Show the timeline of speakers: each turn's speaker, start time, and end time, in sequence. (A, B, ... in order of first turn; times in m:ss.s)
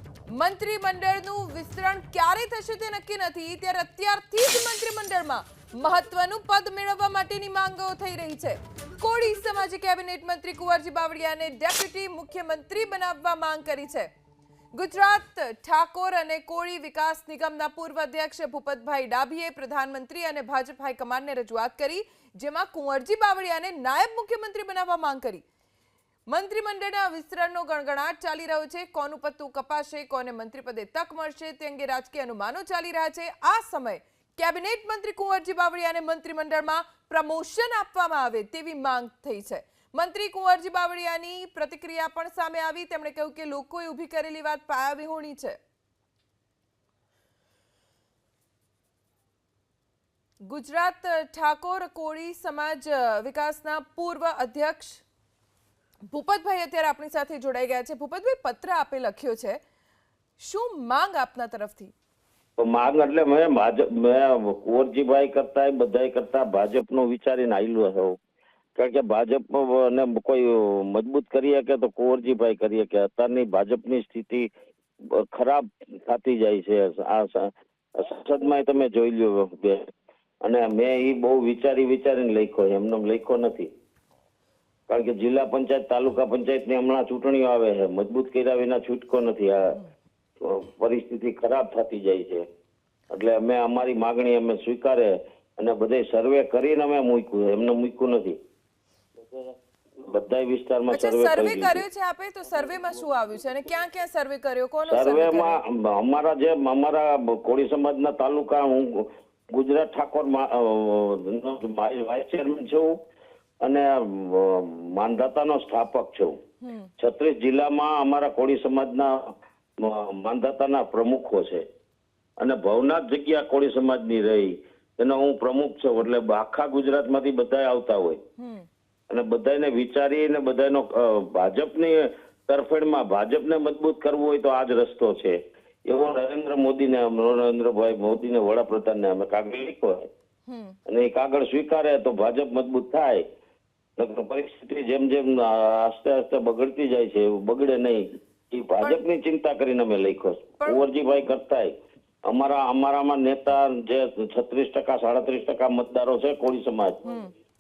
0:00.3-0:14.1 A
0:14.7-0:25.4 A
0:26.3-0:45.6 A
0:50.5-0:55.0 A
0:56.1-0:59.6 A
1:00.4-1:01.9 A
1:02.6-1:08.2 B
1:08.8-1:14.5 B
1:15.0-1:19.9 B
1:20.4-1:23.7 B
1:24.9-1:29.8 B
1:30.4-1:32.4 B
1:33.1-1:38.4 B
1:39.3-1:41.8 B
1:40.9-1:45.6 A
1:44.9-1:53.0 B
1:53.6-1:56.4 B
1:56.6-1:56.9 A
1:57.0-2:01.6 B
2:02.4-2:08.2 B
2:08.4-2:08.7 A
2:09.1-2:20.1 B
2:20.5-2:20.8 A
2:20.9-2:23.2 B
2:24.0-2:31.7 B
2:32.2-2:37.0 B